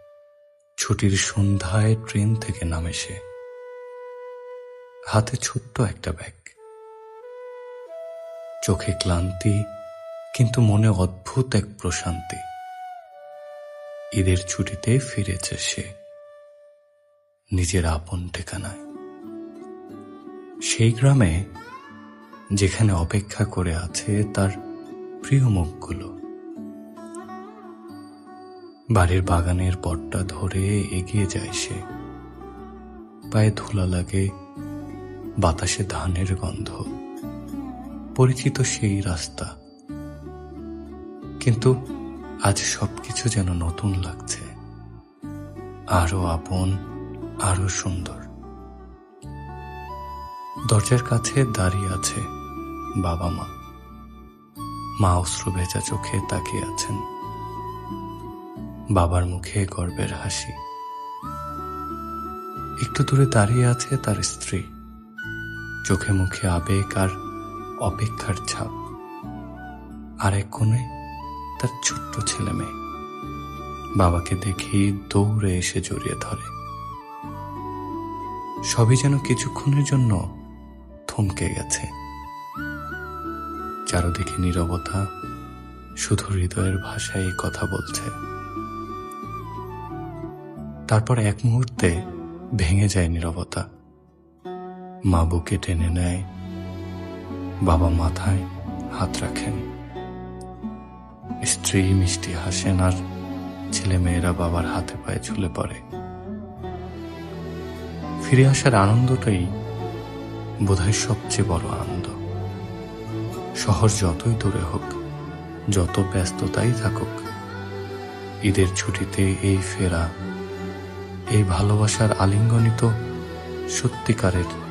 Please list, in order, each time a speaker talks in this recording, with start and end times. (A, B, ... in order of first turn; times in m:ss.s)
0:00.8-0:03.2 A
0:05.1-0:06.5 A
0:08.7-0:09.6 A
0:10.4-0:12.4 A
0:14.2-0:15.9 A
0:17.6-0:18.8 A
0:20.7-0:21.4 A
0:22.6-0:24.5 A
0:25.2-0:26.1 A
0:29.0-0:31.8 A
0:33.3-0:34.2 A
0:35.4-0:36.8 A
0:38.2-0:39.5 A
0:41.4-0:41.7 A
0:42.5-0:44.5 A
0:46.0-0:46.7 A
0:47.4-0:48.2 A
0:50.7-0:52.2 A
0:53.0-0:53.5 A
0:55.0-0:57.0 A
0:59.0-1:00.6 A
1:02.8-1:04.6 A
1:05.9-1:07.1 A
1:07.8-1:08.7 A
1:10.2-1:10.9 A
1:11.6-1:12.7 A
1:14.0-1:16.5 A
1:18.7-1:20.2 A
1:21.1-1:21.9 A
1:23.9-1:25.0 A
1:26.0-1:28.1 A
1:30.9-1:31.9 A
1:32.6-1:33.6 A
1:35.1-1:36.2 A
1:37.7-1:38.4 A
1:39.0-1:39.6 A
1:41.4-1:43.0 A
1:43.7-1:45.8 A
1:48.2-1:49.5 A
1:50.7-1:52.2 A
1:53.6-1:55.0 A
1:55.8-1:57.2 A
1:58.5-2:00.1 A
2:01.4-2:02.9 A
2:03.8-2:04.5 A